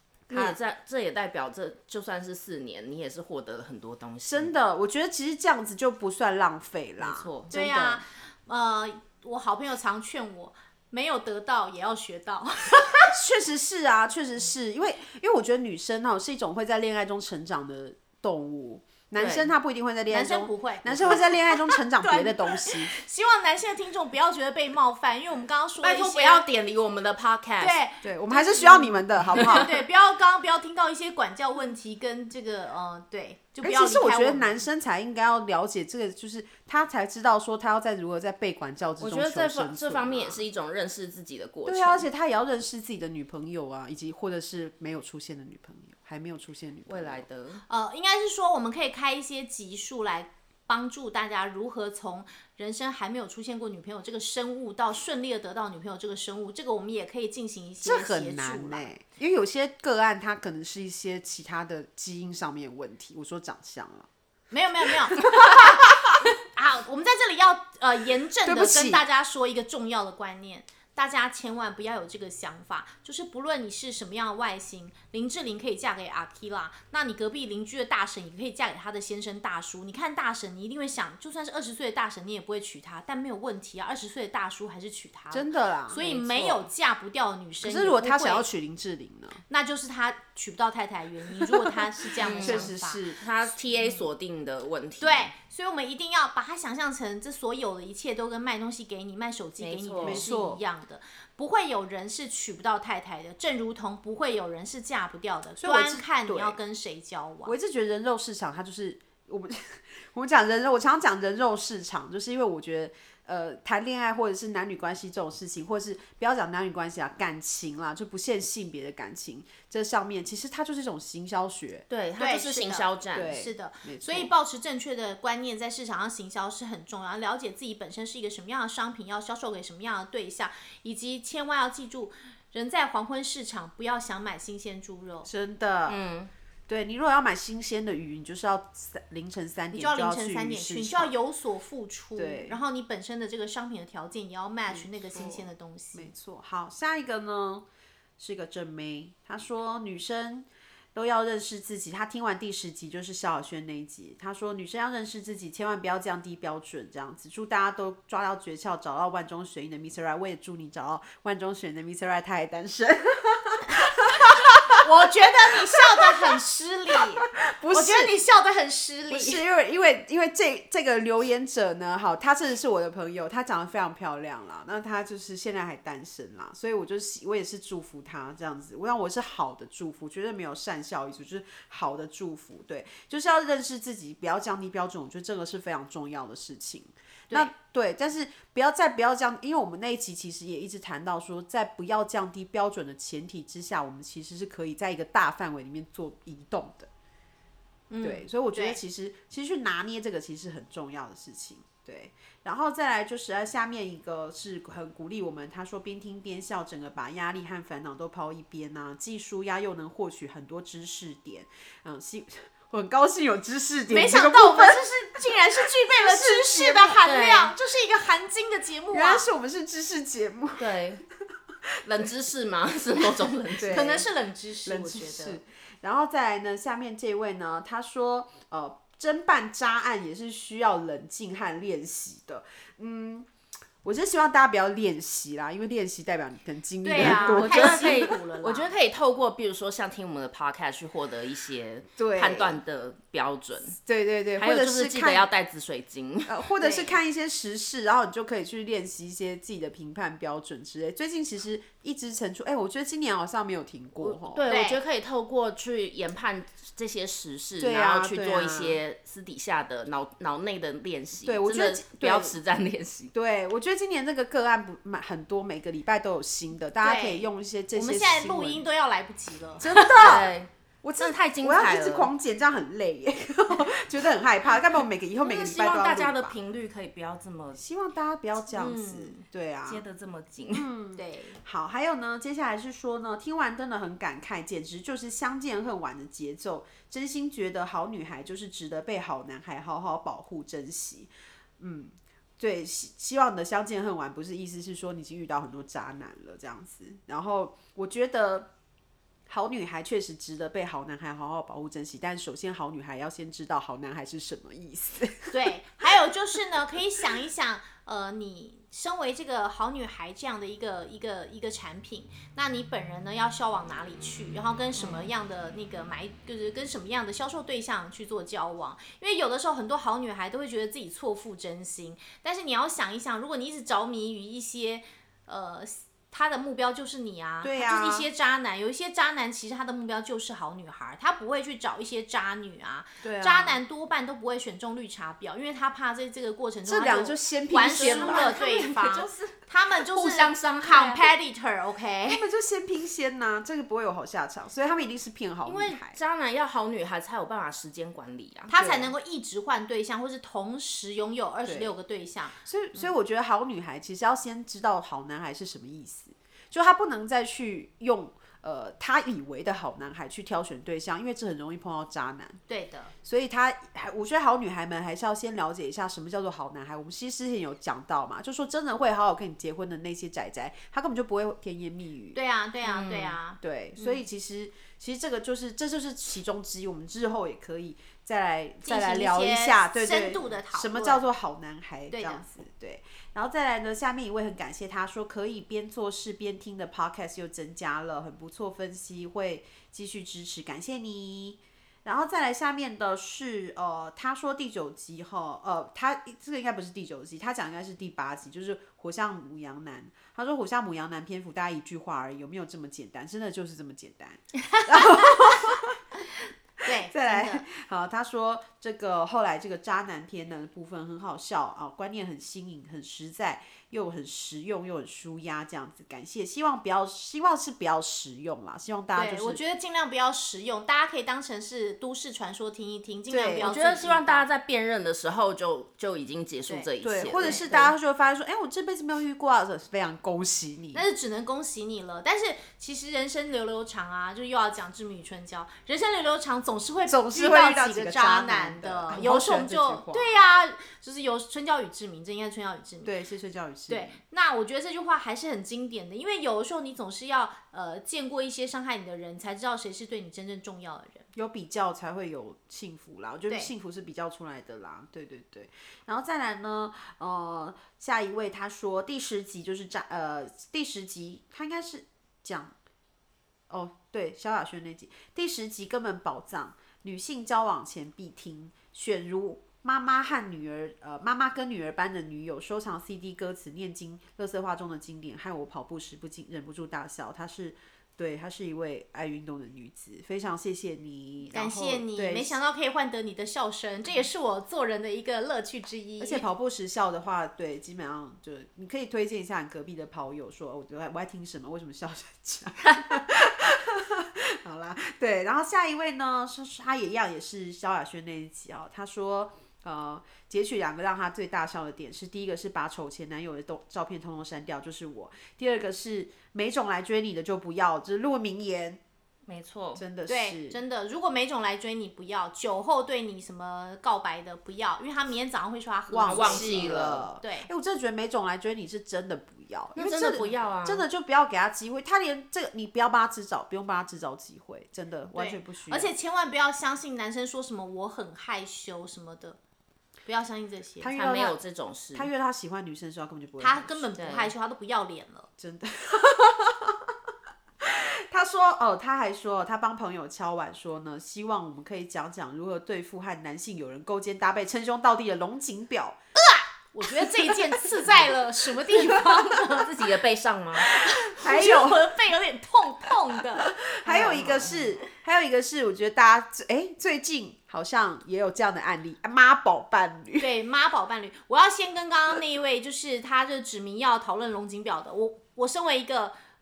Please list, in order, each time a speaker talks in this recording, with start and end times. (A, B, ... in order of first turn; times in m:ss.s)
0:00.3-0:04.5 A
0:00.3-0:00.6 B
0:04.2-0:08.0 B
0:07.0-0:07.5 A
0:07.5-0:13.1 C
0:13.0-0:22.9 B
0:19.2-0:19.5 A
0:20.1-0:26.4 C
0:25.8-0:27.8 A
0:27.6-0:34.6 C
0:28.0-0:29.7 B
0:33.6-0:40.4 B
0:39.0-0:42.0 A
0:41.6-0:47.2 B
0:46.9-0:47.6 A
0:47.7-0:58.9 C
0:57.8-1:04.1 B
1:04.5-1:28.5 C
1:05.1-1:06.1 B
1:08.4-1:09.0 B
1:25.3-1:26.5 B
1:26.0-1:26.6 A
1:27.6-1:29.4 B
1:29.5-1:33.0 C
1:31.4-1:33.2 B
1:32.2-1:35.3 A
1:33.7-1:34.0 C
1:35.0-1:47.5 C
1:39.6-1:40.2 A
1:40.0-1:40.6 B
1:45.6-1:46.6 B
1:47.4-2:01.8 B
2:01.9-2:03.3 A
2:02.2-2:15.3 C
2:03.1-2:04.3 B
2:15.2-2:16.0 B
2:15.9-2:16.3 A
2:16.7-2:21.1 B
2:19.7-2:26.1 C
2:22.2-2:22.6 B
2:24.7-2:27.6 B
2:28.2-2:44.8 B
2:44.7-2:49.4 C
2:45.6-2:46.1 B
2:47.2-2:48.1 B
2:49.1-3:16.9 B
3:17.9-3:18.8 C
3:18.0-3:37.0 B
3:33.9-3:39.2 C
3:37.0-3:37.5 A
3:38.9-3:40.7 B
3:40.6-3:41.0 A
3:41.8-3:44.0 A
3:43.5-3:44.1 B
3:43.6-3:45.4 C
3:44.6-3:53.3 B
3:53.8-3:58.2 B
3:56.8-3:58.7 C
3:57.0-4:03.8 A
4:02.0-4:02.6 B
4:03.8-4:05.3 B
4:04.4-4:06.3 A
4:06.2-4:14.5 B
4:06.6-4:07.0 C
4:14.0-4:23.1 A
4:14.5-4:14.8 C
4:17.6-4:18.8 B
4:21.2-4:22.4 B
4:23.1-4:28.6 B
4:26.8-4:30.1 C
4:29.6-4:30.3 B
4:29.8-4:32.1 A
4:30.8-4:36.4 B
4:35.2-4:37.6 A
4:37.6-4:39.8 B
4:38.5-4:39.2 C
4:39.7-4:40.7 A
4:40.5-4:58.5 B
4:41.0-4:41.4 C
4:59.3-5:05.9 B
5:05.3-5:42.2 C
5:14.8-5:15.1 A
5:27.4-5:28.1 B
5:33.0-5:33.6 B
5:36.7-5:38.3 B
5:37.7-5:41.1 A
5:42.1-5:46.0 B
5:45.4-5:45.8 C
5:45.8-5:48.5 A
5:48.5-5:52.4 C
5:48.5-5:48.9 B
5:51.4-5:51.7 B
5:52.4-6:02.4 B
6:02.5-6:02.9 C
6:03.0-6:12.2 B
6:12.1-6:14.0 C
6:12.6-6:13.2 A
6:13.4-6:45.8 B
6:18.6-6:21.0 C
6:21.9-6:22.2 C
6:46.6-6:47.4 C
6:46.6-6:59.4 B
6:58.9-7:04.2 C
7:03.1-7:03.5 B
7:03.4-7:07.5 A
7:06.5-7:07.7 C
7:06.8-7:10.8 B
7:10.7-7:23.0 C
7:16.9-7:20.2 B
7:22.8-7:24.0 B
7:23.7-7:31.0 C
7:31.1-7:42.5 B
7:43.5-8:02.4 B
8:01.3-8:06.2 C
8:06.0-8:28.8 B
8:29.2-8:29.8 A
8:29.8-8:30.6 B
8:30.1-8:37.5 C
8:35.9-8:45.9 B
8:36.0-8:37.0 A
8:39.8-8:40.8 A
8:45.1-8:49.4 C
8:50.0-8:50.9 C
8:50.8-8:51.4 B
8:50.9-8:52.1 A
8:51.9-8:53.9 B
8:53.4-8:55.3 C
8:54.0-8:54.3 A
8:55.4-8:56.9 B
8:57.6-9:06.0 B
9:06.3-9:09.8 C
9:07.0-9:07.7 B
9:09.3-9:10.6 A
9:10.6-9:11.8 B
9:11.0-9:14.1 C
9:13.4-9:20.3 B
9:13.9-9:14.6 A
9:20.2-9:26.1 C